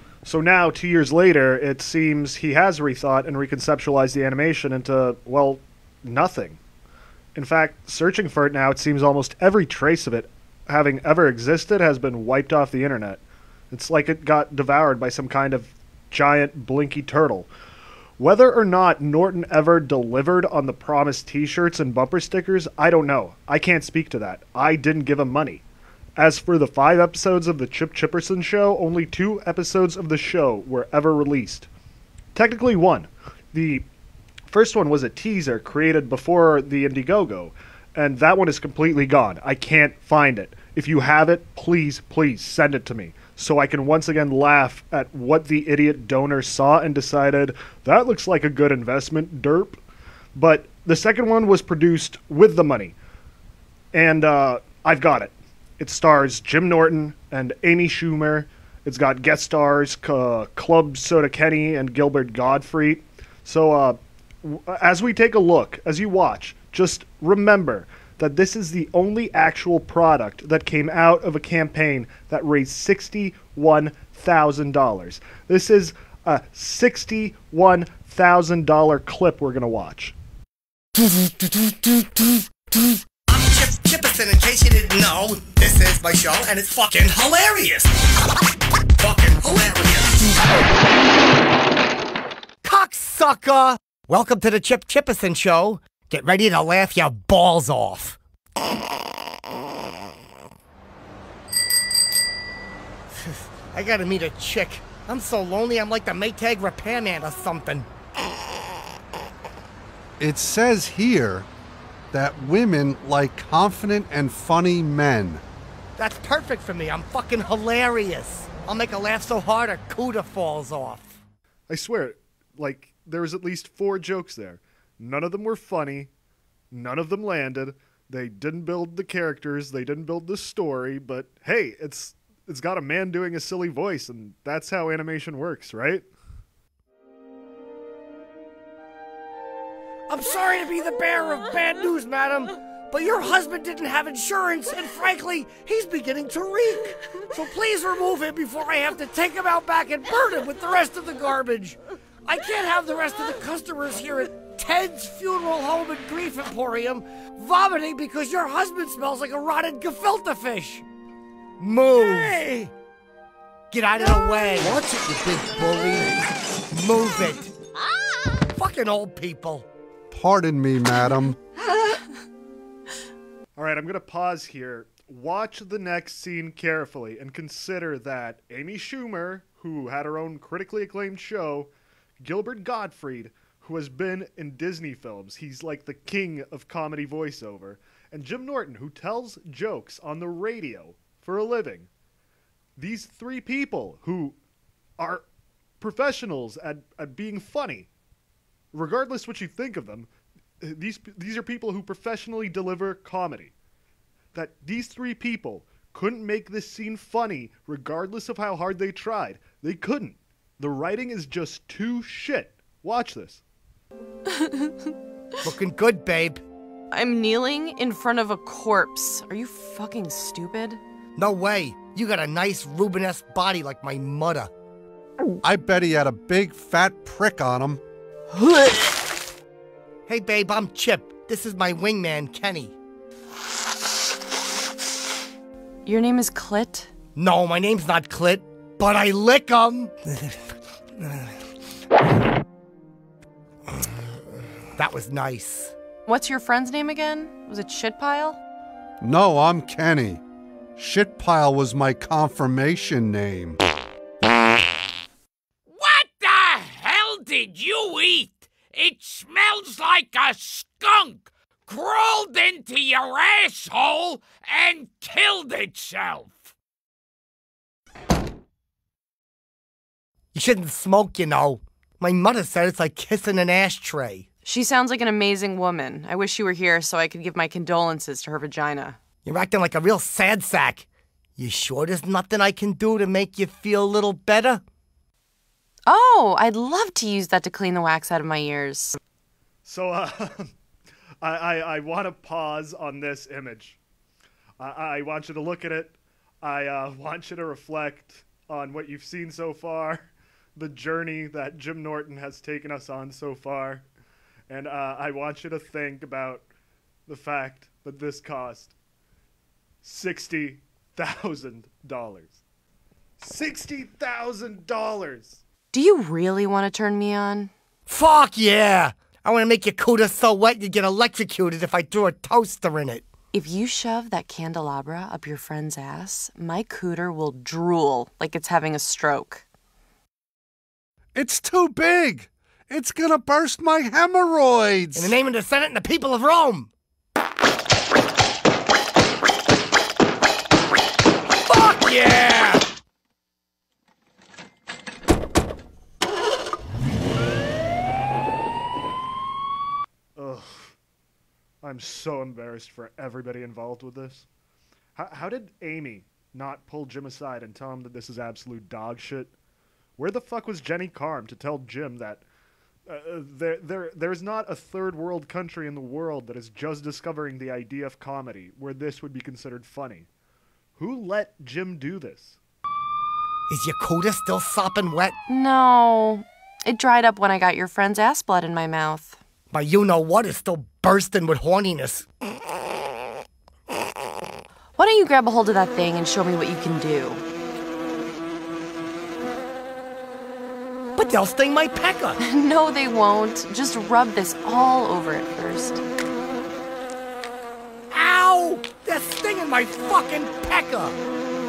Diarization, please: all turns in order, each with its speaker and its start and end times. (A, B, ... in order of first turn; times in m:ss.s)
0:00.2-0:06.6 A
0:07.4-0:17.5 A
0:18.2-0:25.6 A
0:26.2-0:31.7 A
0:32.4-0:33.9 A
0:34.5-0:49.8 A
0:50.4-0:53.0 A
0:53.9-1:20.2 A
1:21.2-1:27.9 B
1:29.0-1:30.5 B
1:32.6-1:38.2 B
1:43.2-1:47.9 B
1:50.2-1:51.5 C
1:52.1-1:55.4 C
1:56.0-2:01.2 B
2:01.7-2:06.1 A
2:06.7-2:16.1 A
2:20.1-2:40.8 B
2:41.6-2:42.7 B
2:43.7-2:47.6 B
2:48.5-2:49.6 B
2:50.1-2:51.4 C
2:53.6-3:01.7 A
3:02.2-3:11.9 A
3:12.8-3:14.4 A
3:15.0-3:15.2 A
3:15.8-3:17.9 A
3:18.7-3:20.1 A
3:20.6-3:23.5 A
3:24.3-3:33.4 A
3:34.4-3:34.9 D
3:35.4-3:36.4 B
3:36.9-3:40.8 D
3:41.2-3:44.5 B
3:45.4-3:47.8 C
3:48.4-3:48.9 D
3:50.1-3:52.7 B
3:55.9-3:56.9 D
3:57.2-4:01.4 B
4:04.8-4:05.7 B
4:06.1-4:08.4 D
4:09.0-4:10.2 C
4:10.8-4:13.6 C
4:15.7-4:26.5 E
4:30.3-4:34.2 B
4:34.4-4:39.0 D
4:39.2-4:40.9 B
4:41.4-4:44.6 B
4:45.9-4:49.0 D
4:49.6-4:50.5 A
4:51.2-4:53.8 A
4:54.6-5:03.9 A
5:04.5-5:06.5 A
5:07.1-5:08.7 A
5:09.8-5:12.4 A
5:13.2-5:15.4 A
5:15.7-5:17.5 D
5:17.9-5:23.1 B
5:23.3-5:29.4 D
5:31.2-5:35.1 C
5:35.0-5:36.7 B
5:41.5-5:42.6 B
5:50.2-5:50.7 A
5:51.6-5:54.3 A
5:55.0-5:59.3 A
6:00.0-6:02.2 A
6:02.9-6:10.1 A
6:10.8-6:12.4 A
6:13.5-6:15.2 B
6:15.3-6:19.2 D
6:19.5-6:22.1 B
6:24.8-6:27.2 D
6:31.0-6:32.2 B
6:32.2-6:35.8 D
6:37.9-6:41.0 B